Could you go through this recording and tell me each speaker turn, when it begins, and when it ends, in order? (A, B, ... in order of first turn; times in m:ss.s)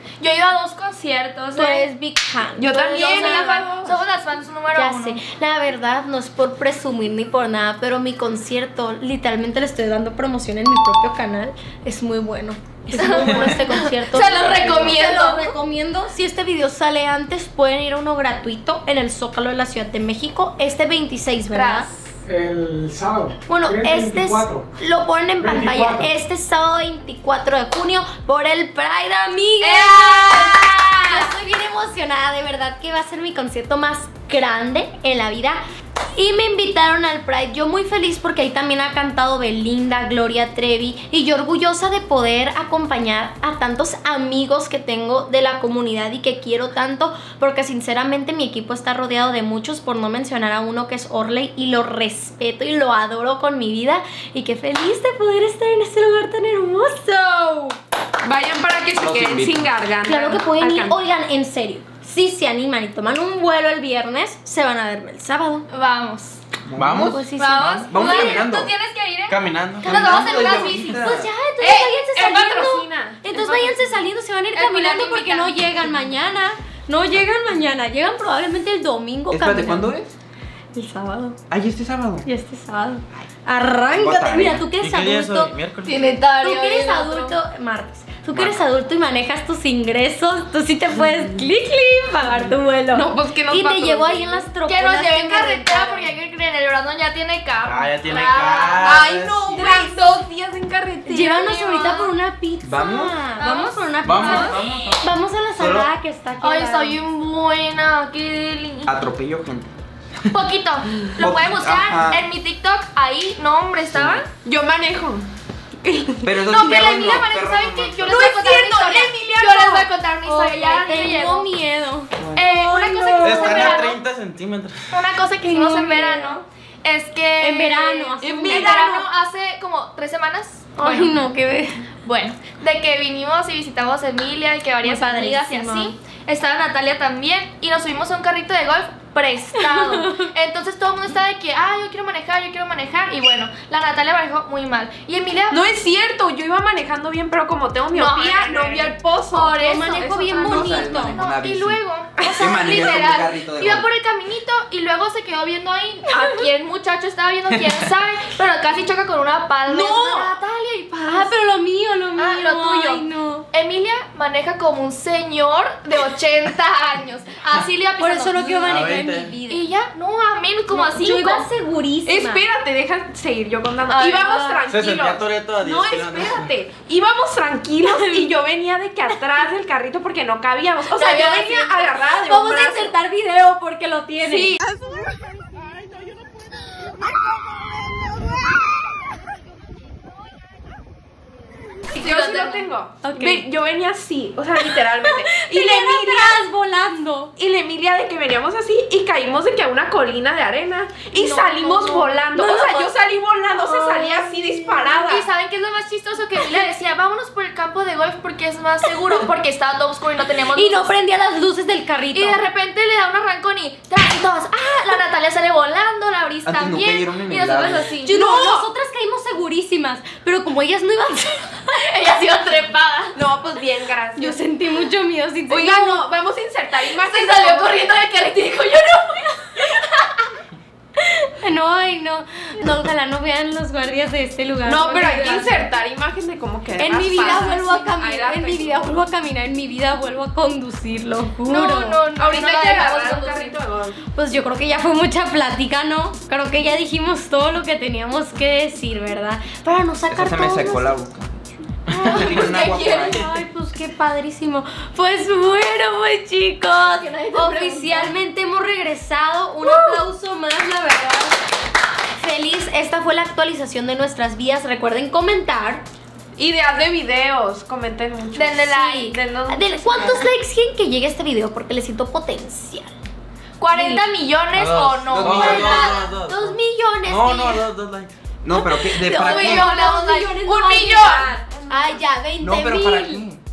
0:00.2-0:01.9 A
0:01.5-0:03.5 B
0:02.6-0:03.9 C
0:02.8-0:05.2 A
0:04.7-0:21.9 B
0:12.9-0:15.5 A
0:14.6-0:14.9 D
0:21.5-0:22.2 A
0:22.3-0:24.6 E
0:23.5-0:35.6 B
0:25.4-0:26.0 E
0:29.6-0:31.3 A
0:36.1-0:57.8 B
0:58.2-1:01.0 C
0:59.0-0:59.7 D
1:00.0-1:05.7 B
1:05.7-1:06.4 A
1:06.6-1:08.7 D
1:06.8-1:07.2 F
1:07.0-1:08.5 B
1:07.3-1:11.1 A
1:09.3-1:10.0 F
1:09.8-1:19.9 B
1:09.8-1:11.3 D
1:11.6-1:13.9 C
1:14.5-1:15.6 A
1:19.3-1:20.1 D
1:20.7-1:21.4 B
1:21.5-1:22.3 D
1:22.2-1:25.5 B
1:23.9-1:24.7 D
1:24.8-1:26.2 F
1:25.8-1:27.4 A
1:26.4-1:36.1 B
1:28.3-1:28.6 D
1:32.9-1:34.4 C
1:34.6-1:39.1 A
1:37.6-1:39.7 F
1:38.7-1:41.2 C
1:39.5-1:39.9 B
1:39.6-1:39.9 A
1:41.1-1:47.0 B
1:41.2-1:42.1 A
1:42.6-1:43.2 D
1:43.4-1:44.5 A
1:44.0-1:44.4 F
1:44.1-1:45.9 D
1:46.4-1:48.9 A
1:48.8-1:49.7 D
1:50.3-1:54.3 A
1:51.2-1:52.2 D
1:53.9-1:54.2 D
1:54.4-1:55.3 C
1:55.8-1:56.7 C
1:56.2-1:58.2 D
1:56.4-2:01.5 A
1:58.0-2:00.5 C
2:00.2-2:03.8 B
2:02.2-2:02.4 D
2:02.4-2:04.0 A
2:03.2-2:05.0 F
2:04.9-2:11.2 A
2:05.4-2:06.4 B
2:07.4-2:09.0 B
2:08.2-2:09.0 C
2:10.8-2:11.8 B
2:12.0-2:25.6 A
2:14.8-2:15.9 B
2:19.6-2:20.2 B
2:25.5-2:30.7 C
2:27.9-2:41.3 A
2:29.6-2:31.2 B
2:30.5-2:31.8 D
2:32.2-2:32.7 C
2:32.3-2:33.9 D
2:36.1-2:36.5 C
2:39.7-2:40.3 B
2:41.0-2:43.4 B
2:42.2-2:48.8 A
2:48.0-2:49.7 B
2:48.6-2:49.3 F
2:49.5-2:51.5 A
2:50.7-2:52.4 B
2:52.0-3:02.9 C
2:53.9-2:54.6 A
2:54.7-2:56.5 F
2:57.8-2:58.3 B
3:01.0-3:01.5 A
3:01.0-3:04.5 B
3:11.9-3:16.4 C
3:12.0-3:12.7 A
3:13.0-3:13.4 B
3:14.6-3:17.3 B
3:17.4-3:25.2 C
3:21.2-3:22.9 B
3:23.6-3:24.6 B
3:24.8-3:30.9 A
3:28.8-3:29.3 B
3:30.5-3:32.4 B
3:32.1-3:38.2 A
3:36.4-3:37.9 D
3:38.0-3:42.2 B
3:38.1-3:38.7 C
3:41.8-3:43.2 A
3:43.1-3:44.4 C
3:44.2-3:46.1 B
3:45.5-3:47.9 C
3:46.8-3:50.2 A
3:51.0-3:55.6 B
3:54.6-3:58.9 C
3:54.8-3:55.5 A
3:56.8-4:02.0 B
3:57.1-3:57.5 A
4:01.4-4:03.6 A
4:02.2-4:04.0 C
4:04.1-4:11.0 B
4:10.1-4:11.4 D
4:11.9-4:21.4 B
4:11.9-4:12.5 F
4:12.0-4:13.3 D
4:12.1-4:13.1 A
4:16.9-4:18.1 A
4:19.6-4:20.0 A
4:22.2-4:25.8 B
4:26.4-4:30.3 C
4:28.3-4:29.0 A
4:28.7-4:32.9 B
4:33.6-4:35.8 A
4:33.7-4:34.0 B
4:34.5-4:38.2 F
4:35.1-4:35.9 D
4:35.3-4:37.7 B
4:38.4-4:39.7 D
4:38.5-4:43.2 B
4:39.1-4:41.3 A
4:41.1-4:42.0 C
4:42.4-4:43.4 D